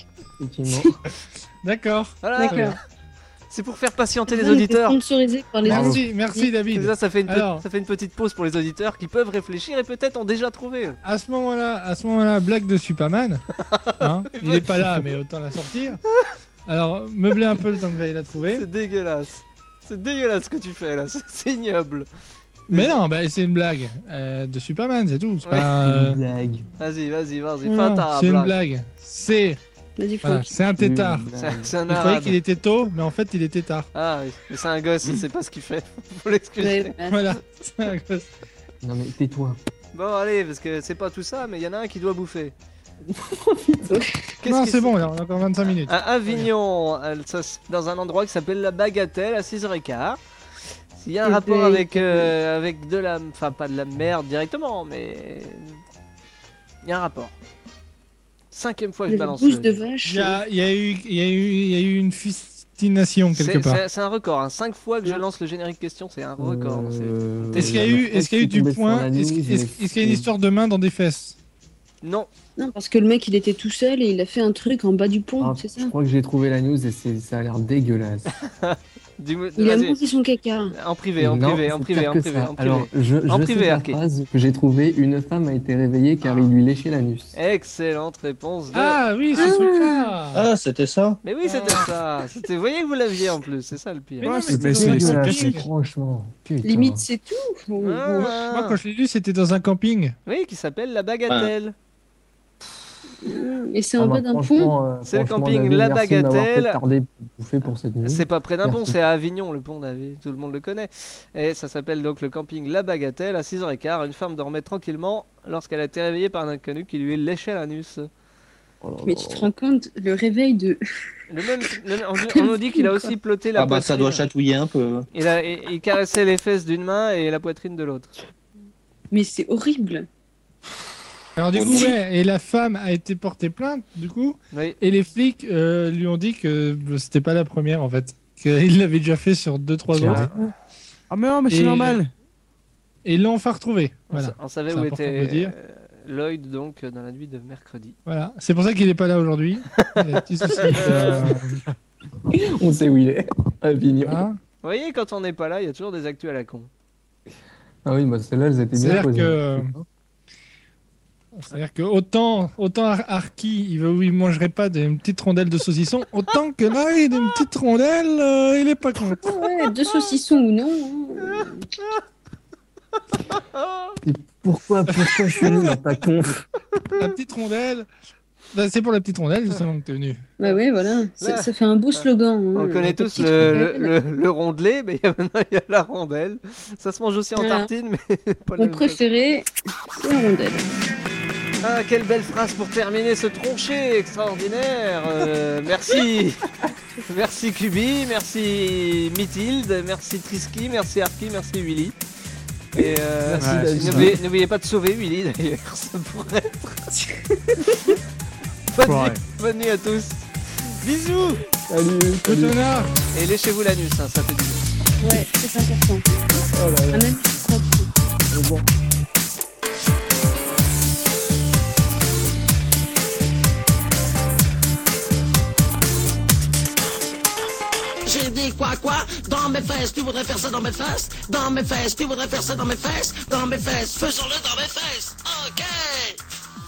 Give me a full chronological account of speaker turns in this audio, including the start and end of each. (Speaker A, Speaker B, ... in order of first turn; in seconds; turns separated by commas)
Speaker A: 0.4-1.0, Speaker B: 1.6-2.8, Speaker C: 2.2-2.7, Speaker D: 2.4-2.8, Speaker C: 3.5-5.0, Speaker D: 4.3-6.5, Speaker B: 5.6-7.6, Speaker A: 5.7-6.0, Speaker C: 6.7-11.0, Speaker B: 11.0-13.4, Speaker C: 13.6-15.1, Speaker B: 14.0-16.0, Speaker B: 16.7-18.6, Speaker C: 18.5-22.1, Speaker B: 22.7-26.2, Speaker C: 22.7-22.9, Speaker C: 25.4-25.7, Speaker A: 25.8-26.6, Speaker C: 26.8-28.5, Speaker B: 27.6-29.6, Speaker D: 30.0-30.5, Speaker B: 30.2-31.2, Speaker A: 30.8-31.7, Speaker C: 31.4-32.4, Speaker B: 31.9-33.9, Speaker C: 33.9-36.9, Speaker D: 36.6-37.2, Speaker B: 37.1-38.3, Speaker A: 38.8-39.6, Speaker C: 39.9-42.5, Speaker A: 43.1-44.0, Speaker D: 43.8-44.2, Speaker C: 44.4-50.2, Speaker B: 44.4-45.9, Speaker C: 50.9-55.8, Speaker D: 51.2-52.3, Speaker C: 56.8-57.4, Speaker C: 58.5-59.8, Speaker D: 59.1-60.4, Speaker B: 60.0-63.8, Speaker C: 63.3-67.9, Speaker A: 66.4-70.3, Speaker B: 67.5-71.3, Speaker C: 72.0-72.3, Speaker D: 72.6-75.9, Speaker A: 75.4-78.3, Speaker C: 78.5-80.0, Speaker D: 79.6-80.7, Speaker C: 80.7-84.0, Speaker A: 81.2-87.3, Speaker C: 87.3-89.5, Speaker B: 88.7-90.5, Speaker D: 89.3-90.1, Speaker E: 90.3-91.2, Speaker C: 91.2-94.3, Speaker B: 91.4-91.9, Speaker B: 94.2-95.7, Speaker F: 94.3-95.6, Speaker A: 94.5-97.0, Speaker D: 96.6-98.3, Speaker C: 97.8-98.8, Speaker B: 98.1-100.2, Speaker C: 100.2-101.7, Speaker D: 103.2-104.7, Speaker A: 104.0-109.0, Speaker C: 105.0-106.8, Speaker C: 108.0-118.1, Speaker A: 118.8-119.5, Speaker D: 119.0-120.8, Speaker C: 121.3-124.2, Speaker D: 122.2-123.1, Speaker E: 123.5-125.1, Speaker C: 125.1-128.1, Speaker D: 129.1-130.1, Speaker B: 131.3-140.5, Speaker E: 131.5-131.9, Speaker C: 134.5-134.8, Speaker A: 139.9-140.5, Speaker F: 141.1-142.1, Speaker B: 141.5-142.0, Speaker B: 143.0-145.5, Speaker C: 144.1-147.9, Speaker B: 148.1-151.6, Speaker C: 150.5-151.2, Speaker A: 150.8-151.4, Speaker A: 152.2-154.2, Speaker B: 154.1-154.4, Speaker C: 154.6-156.7, Speaker A: 157.8-159.8, Speaker B: 158.8-159.7, Speaker B: 161.3-169.3, Speaker D: 169.2-171.7, Speaker C: 171.3-172.0, Speaker C: 173.2-173.9, Speaker A: 174.0-176.4, Speaker B: 174.9-175.8, Speaker B: 177.0-177.9, Speaker B: 178.5-180.2, Speaker D: 180.4-183.9, Speaker C: 181.2-189.0, Speaker D: 187.4-187.7, Speaker D: 188.6-190.7, Speaker C: 191.6-196.4, Speaker C: 197.1-201.9, Speaker C: 202.7-206.9, Speaker A: 202.8-204.2, Speaker F: 203.4-204.1, Speaker C: 208.7-211.4, Speaker F: 208.8-209.2, Speaker A: 211.7-212.6, Speaker B: 212.2-212.9, Speaker C: 213.1-214.7, Speaker D: 215.0-216.0, Speaker A: 216.5-217.1, Speaker D: 216.9-217.9, Speaker A: 218.3-218.7, Speaker G: 228.0-236.2